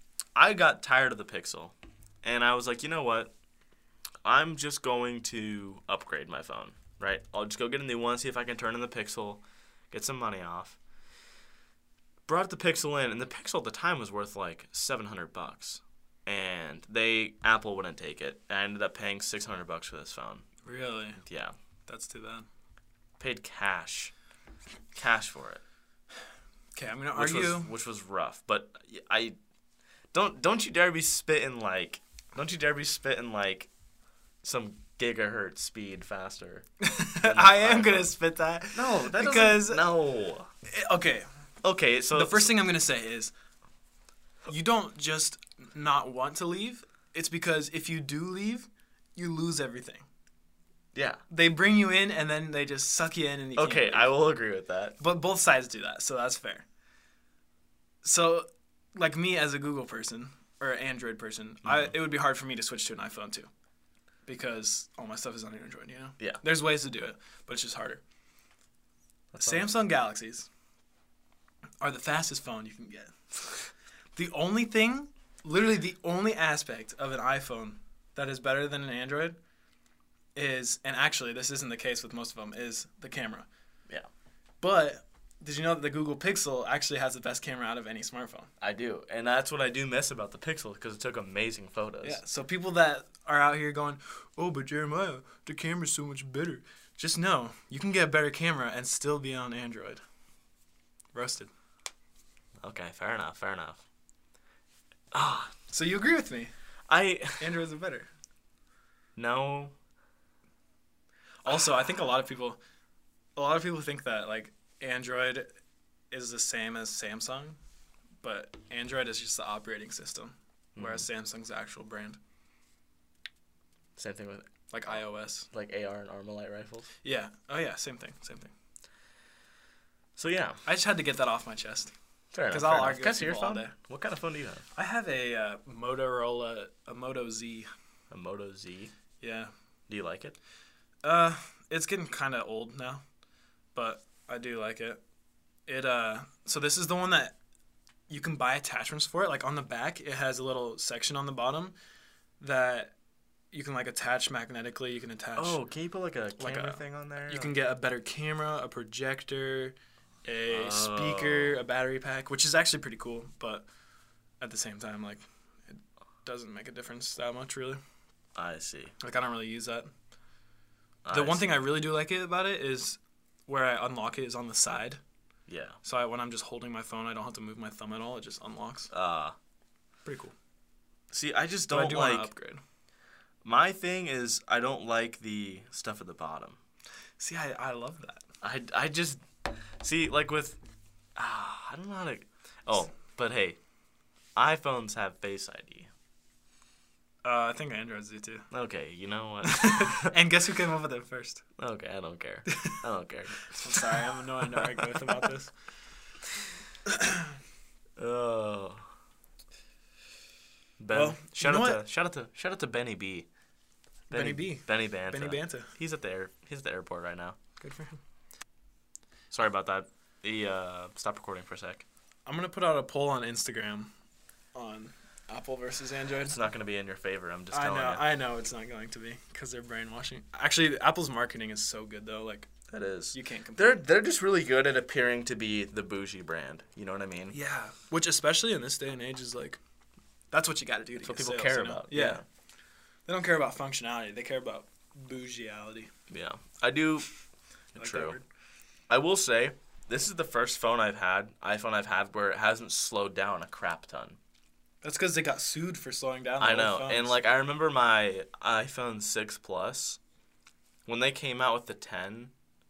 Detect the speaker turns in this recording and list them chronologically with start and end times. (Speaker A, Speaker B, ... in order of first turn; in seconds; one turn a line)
Speaker A: 0.3-3.3
Speaker A: 4.2-10.8
Speaker A: 12.3-20.4
Speaker B: 20.6-21.2
Speaker A: 21.2-21.5
Speaker B: 21.9-22.5
Speaker A: 23.2-24.1
Speaker A: 24.9-25.6
Speaker B: 26.8-27.7
Speaker A: 27.1-29.4
Speaker A: 30.1-33.7
Speaker A: 34.4-36.7
Speaker B: 36.8-39.9
Speaker A: 37.2-38.1
Speaker A: 38.7-40.5
Speaker B: 40.7-41.3
Speaker A: 41.6-42.5
Speaker B: 42.1-43.3
Speaker B: 44.5-50.1
Speaker A: 50.9-51.2
Speaker B: 51.3-54.1
Speaker A: 53.6-55.0
Speaker B: 55.0-56.6
Speaker B: 58.0-63.5
Speaker B: 64.3-68.0
Speaker A: 69.3-69.7
Speaker B: 69.4-70.5
Speaker B: 71.8-79.4
Speaker B: 80.3-83.5
Speaker B: 84.6-88.5
Speaker A: 88.6-92.2
Speaker B: 92.0-100.0
Speaker B: 101.1-101.5
Speaker A: 102.6-103.8
Speaker A: 105.1-105.5
Speaker B: 105.7-106.5
Speaker A: 106.9-107.5
Speaker B: 107.4-108.1
Speaker A: 109.2-109.7
Speaker B: 111.5-112.6
Speaker B: 113.4-115.5
Speaker B: 116.1-117.6
Speaker B: 118.2-122.2
Speaker A: 120.8-121.1
Speaker A: 124.0-124.5
Speaker B: 124.7-125.5
Speaker A: 125.5-126.9
Speaker B: 127.0-128.5
Speaker A: 130.2-130.6
Speaker B: 130.7-131.9
Speaker A: 132.3-134.6
Speaker B: 132.5-133.8
Speaker B: 134.8-137.7
Speaker A: 138.1-138.9
Speaker B: 139.2-139.5
Speaker A: 139.9-140.4
Speaker B: 141.0-143.0
Speaker B: 143.8-145.0
Speaker B: 145.7-147.4
Speaker B: 148.1-151.8
Speaker B: 152.4-152.9
Speaker B: 153.5-155.6
Speaker A: 155.4-157.5
Speaker B: 156.4-163.7
Speaker A: 160.5-161.6
Speaker B: 164.4-167.8
Speaker A: 168.3-168.9
Speaker B: 169.0-169.9
Speaker A: 171.1-171.6
Speaker B: 171.1-175.0
Speaker A: 175.5-175.8
Speaker B: 175.8-178.9
Speaker A: 178.9-179.3
Speaker B: 180.1-180.3
Speaker A: 181.1-182.3
Speaker B: 181.7-182.6
Speaker A: 183.4-186.6
Speaker B: 187.2-188.2
Speaker A: 188.4-189.2
Speaker A: 189.8-190.6
Speaker A: 191.2-193.6
Speaker A: 194.4-195.9
Speaker B: 197.2-198.5
Speaker A: 198.5-200.1
Speaker B: 199.4-201.4
Speaker A: 201.6-203.9
Speaker B: 203.6-205.5
Speaker A: 204.5-205.0
Speaker B: 206.9-207.3
Speaker A: 208.0-208.9
Speaker A: 210.8-213.3
Speaker B: 210.9-211.8
Speaker B: 214.1-215.7
Speaker A: 214.1-217.4
Speaker B: 217.6-218.0
Speaker A: 219.3-221.8
Speaker B: 222.3-223.9
Speaker B: 224.5-226.4
Speaker A: 226.2-228.0
Speaker B: 227.5-232.5
Speaker A: 232.7-237.4
Speaker B: 233.1-233.8
Speaker B: 237.3-239.6
Speaker B: 240.3-242.2
Speaker A: 241.0-242.2
Speaker B: 243.1-245.9
Speaker A: 246.1-247.1
Speaker A: 247.7-248.2
Speaker B: 247.8-248.2
Speaker A: 248.9-254.2
Speaker B: 254.8-257.2
Speaker A: 256.4-260.0
Speaker A: 260.9-262.3